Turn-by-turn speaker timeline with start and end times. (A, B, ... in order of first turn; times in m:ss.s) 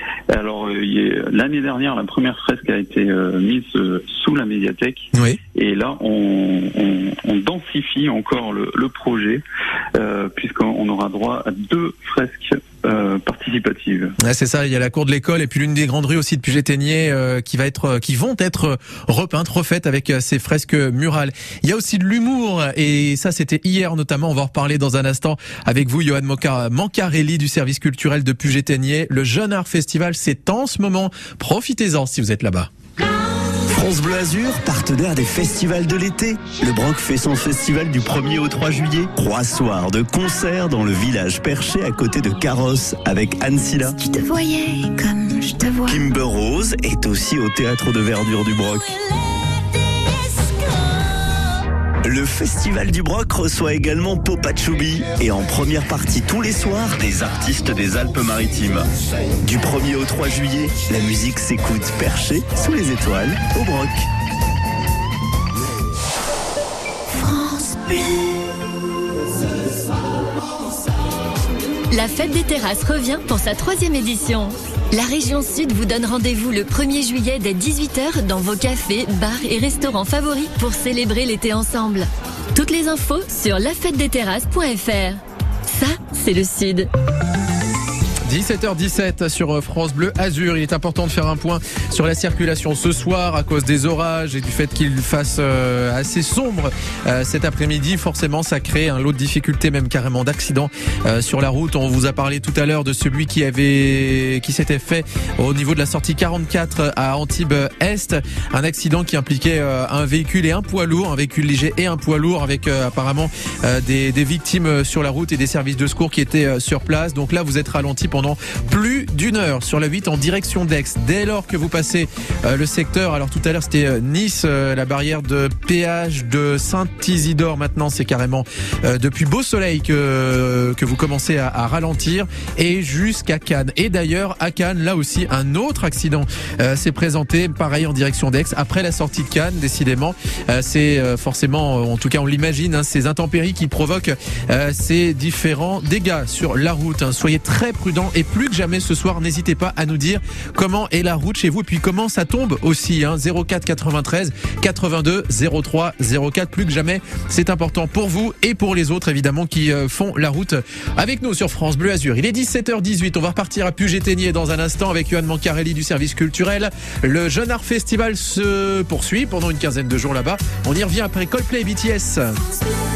0:00.3-0:09.4 A
0:05.1-0:05.4 B
0:10.0-0:14.1 A
0:14.2-0:32.7 B
0:33.6-0:44.0 C
0:44.0-0:46.0 D
0:45.8-0:49.0 C
0:52.0-0:58.9 C
0:59.4-1:04.1 C
1:07.1-1:08.4 D
1:11.9-1:25.2 E
1:25.8-1:26.9 E
1:28.3-2:52.4 B